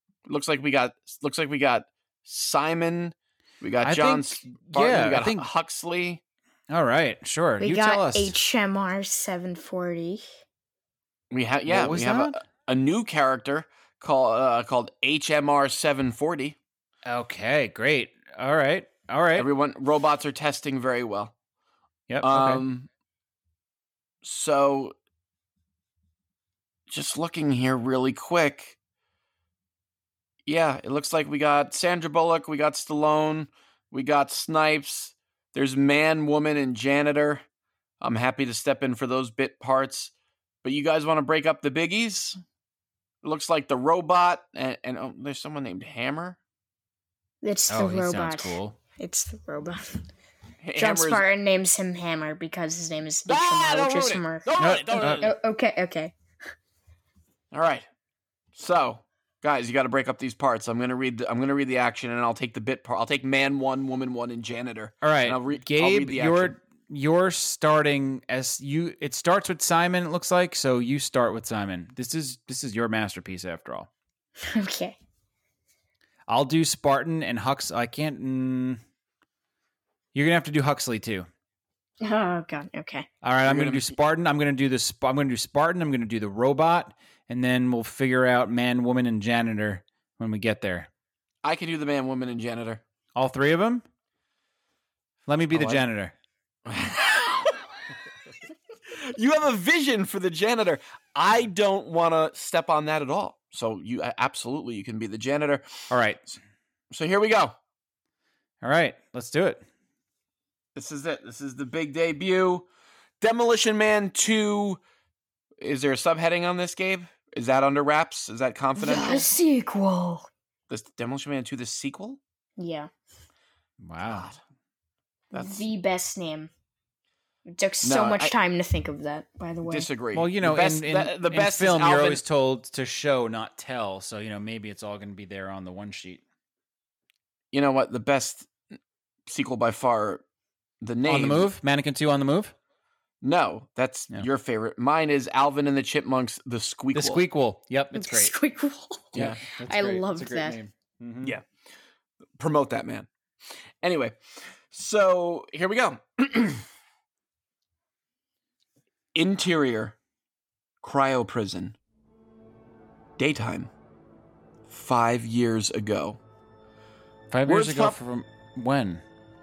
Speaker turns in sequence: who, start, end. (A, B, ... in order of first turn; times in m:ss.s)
0:00.3-0:06.2 A
0:03.8-0:05.4 B
0:06.7-0:08.4 B
0:07.6-0:10.2 C
0:11.3-0:16.6 A
0:11.6-0:12.4 B
0:17.0-0:19.5 B
0:19.4-0:21.4 A
0:22.1-0:22.6 B
0:22.2-0:22.9 A
0:24.2-0:25.0 A
0:26.9-0:28.8 A
0:30.4-0:37.4 A
0:38.0-0:40.1 A
0:40.6-0:42.4 A
0:43.2-0:46.4 A
0:47.4-0:50.0 C
0:47.7-0:48.8 B
0:50.6-0:51.2 A
0:50.8-0:56.1 C
0:53.3-0:55.3 A
0:54.6-0:55.3 B
0:57.5-0:57.9 A
0:58.6-1:06.6 A
1:05.0-1:13.9 B
1:14.4-1:15.0 C
1:16.3-1:18.8 B
1:20.1-1:21.3 B
1:22.0-1:23.1 C
1:23.2-1:30.9 B
1:23.4-1:24.0 A
1:31.4-1:32.8 A
1:33.1-1:33.8 B
1:35.3-1:36.1 B
1:35.5-1:35.8 A
1:36.7-1:37.6 A
1:38.9-1:45.6 A
1:45.9-1:46.2 B
1:46.9-1:47.6 A
1:48.6-1:49.6 B
1:50.7-1:52.7 A
1:53.2-1:54.8 A
1:55.6-1:59.3 A
1:58.8-2:00.3 C
2:00.7-2:02.2 A
2:02.6-2:02.9 C
2:03.8-2:04.3 B
2:04.0-2:04.4 A
2:05.3-2:05.7 A
2:05.3-2:06.5 C
2:07.5-2:09.9 C
2:07.8-2:08.3 A
2:09.6-2:12.2 A
2:10.1-2:16.2 B
2:17.5-2:18.5 A
2:19.3-2:20.2 A
2:20.8-2:21.5 A
2:21.0-2:22.5 B
2:23.2-2:27.2 A
2:26.9-2:28.3 B
2:27.9-2:30.6 C
2:29.1-2:31.4 B
2:32.4-2:33.1 A
2:33.8-2:34.2 A
2:34.7-2:36.6 A
2:39.1-2:40.0 A
2:40.8-2:41.8 A
2:43.2-2:43.7 A
2:44.7-2:46.2 A
2:47.3-2:49.0 B
2:47.4-2:48.0 A